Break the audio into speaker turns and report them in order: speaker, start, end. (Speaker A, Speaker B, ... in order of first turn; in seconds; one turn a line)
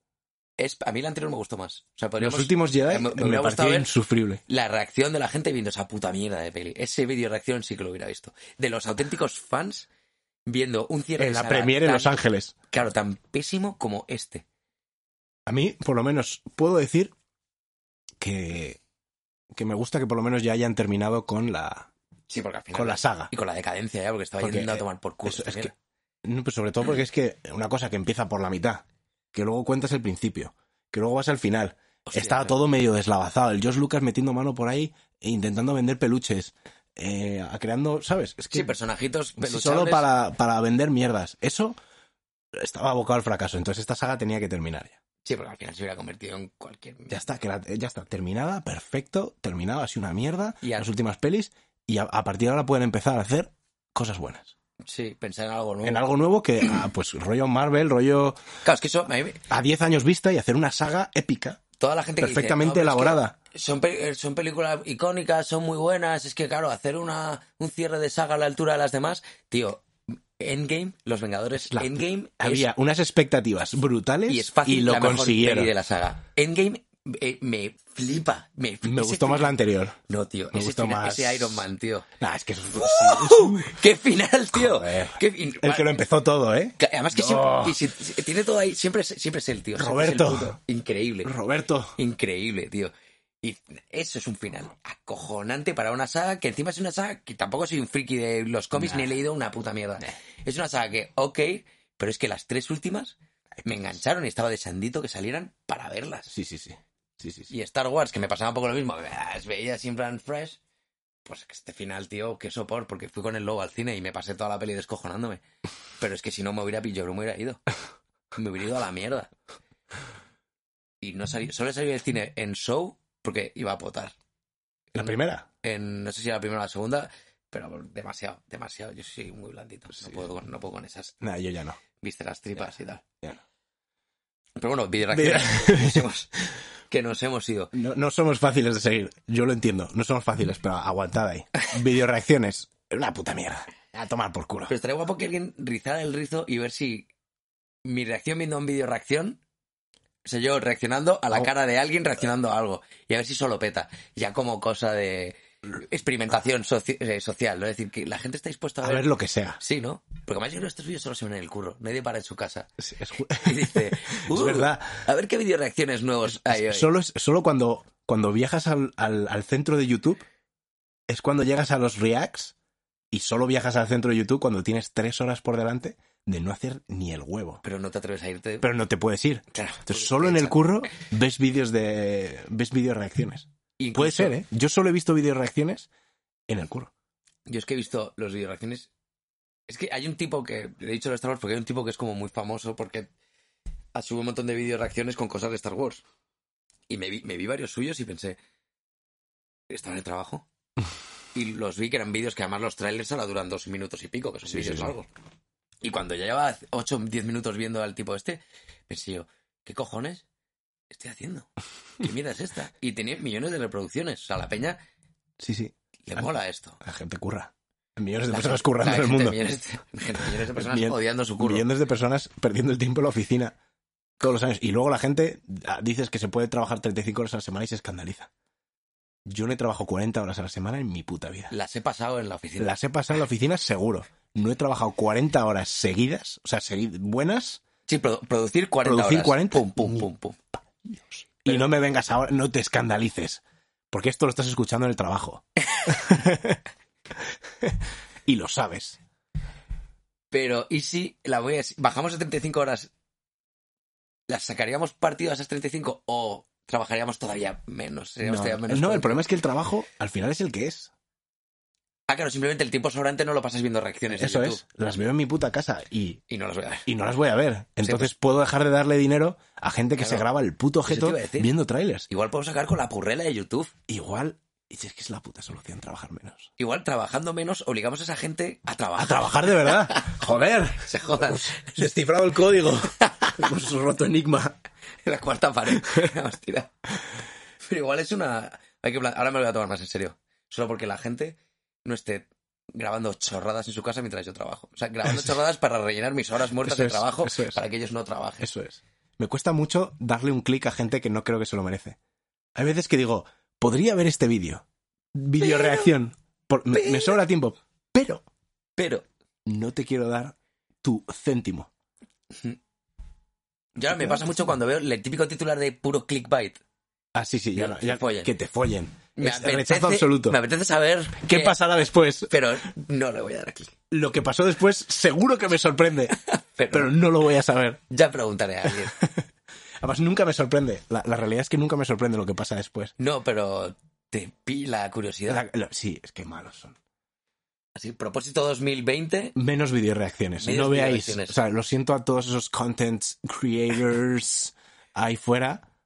Speaker A: 0.6-3.9
Speaker B: 2.2-4.4
Speaker A: 4.5-9.9
Speaker A: 10.4-12.2
Speaker B: 11.2-12.5
Speaker A: 12.7-14.4
Speaker B: 15.4-17.1
Speaker B: 18.2-18.8
Speaker B: 19.5-21.9
Speaker A: 22.3-25.7
Speaker B: 22.7-23.3
Speaker B: 24.4-25.7
Speaker B: 26.2-38.7
Speaker A: 32.0-32.5
Speaker A: 38.5-40.1
Speaker B: 39.4-41.8
Speaker B: 42.5-45.0
Speaker A: 45.2-47.2
Speaker B: 47.1-54.5
Speaker A: 50.6-50.9
Speaker A: 54.8-56.0
Speaker B: 55.8-58.4
Speaker A: 58.6-59.4
Speaker B: 59.5-61.6
Speaker A: 61.8-72.7
Speaker B: 62.2-63.3
Speaker B: 71.6-75.7
Speaker A: 74.3-79.5
Speaker B: 78.8-80.0
Speaker A: 80.1-82.1
Speaker B: 80.5-81.7
Speaker B: 82.2-83.8
Speaker A: 82.8-86.0
Speaker B: 84.5-87.8
Speaker A: 86.8-91.3
Speaker B: 89.8-90.6
Speaker B: 91.2-92.0
Speaker A: 92.0-106.3
Speaker B: 98.7-99.1
Speaker B: 106.3-107.5
Speaker A: 107.5-110.6
Speaker A: 111.2-115.4
Speaker A: 116.0-117.6
Speaker A: 118.3-119.3
Speaker A: 121.0-124.1
Speaker B: 124.9-125.5
Speaker A: 125.0-131.2
Speaker B: 131.2-131.8
Speaker A: 132.0-133.0
Speaker A: 134.6-136.3
Speaker B: 135.1-136.1
Speaker A: 136.9-137.7
Speaker B: 137.7-144.7
Speaker A: 144.7-147.1
Speaker A: 147.8-149.4
Speaker A: 150.2-159.1
Speaker B: 158.8-159.6
Speaker A: 159.6-162.7
Speaker B: 162.8-165.0
Speaker A: 163.3-166.9
Speaker B: 166.2-170.2
Speaker B: 171.1-172.5
Speaker B: 173.1-177.6
Speaker A: 177.6-178.7
Speaker B: 178.6-185.9
Speaker A: 179.5-180.6
Speaker A: 183.8-184.4
Speaker B: 186.5-186.9
Speaker A: 187.5-188.9
Speaker A: 189.7-193.1
Speaker A: 193.9-196.0
Speaker A: 196.9-198.4
Speaker A: 199.7-200.4
Speaker A: 201.3-205.1
Speaker B: 204.5-204.9
Speaker A: 205.8-210.2
Speaker A: 210.9-214.8
Speaker B: 215.4-216.3
Speaker A: 216.1-216.8
Speaker B: 216.8-219.4
Speaker A: 218.3-221.7
Speaker B: 220.2-223.6
Speaker B: 224.2-228.3
Speaker B: 229.2-231.5
Speaker A: 231.5-232.8
Speaker B: 232.6-237.6
Speaker A: 237.9-240.4
Speaker B: 238.8-240.1
Speaker B: 240.9-246.6
Speaker B: 247.6-249.0
Speaker A: 250.3-252.9
Speaker A: 254.3-259.2
Speaker B: 258.2-260.9
Speaker A: 262.1-264.6
Speaker B: 264.1-266.2
Speaker A: 266.3-266.9
Speaker B: 266.9-272.1
Speaker A: 267.8-268.1
Speaker A: 270.0-270.2
Speaker A: 270.9-271.5
Speaker A: 272.1-273.7
Speaker B: 273.9-276.5
Speaker A: 276.6-281.8
Speaker B: 278.9-284.6
Speaker A: 283.0-283.3
Speaker A: 285.0-286.7
Speaker B: 285.8-286.1
Speaker A: 287.6-298.5
Speaker B: 295.1-295.3
Speaker B: 296.6-297.6
Speaker B: 298.4-302.0
Speaker B: 302.5-308.2
Speaker A: 305.4-305.9
Speaker A: 306.7-307.2
Speaker A: 308.8-309.0
Speaker B: 309.4-311.7
Speaker A: 313.8-316.6
Speaker B: 313.9-314.2
Speaker B: 317.1-320.4
Speaker A: 317.5-318.3
Speaker A: 319.1-321.6
Speaker B: 321.2-322.3
Speaker A: 322.3-323.7
Speaker B: 323.9-326.2
Speaker A: 326.2-326.9
Speaker B: 326.7-327.8
Speaker A: 327.9-329.0
Speaker B: 329.0-329.2
Speaker B: 329.8-332.9
Speaker A: 333.0-335.4
Speaker B: 335.3-336.8
Speaker A: 337.7-339.4
Speaker B: 339.4-345.6
Speaker A: 340.4-341.4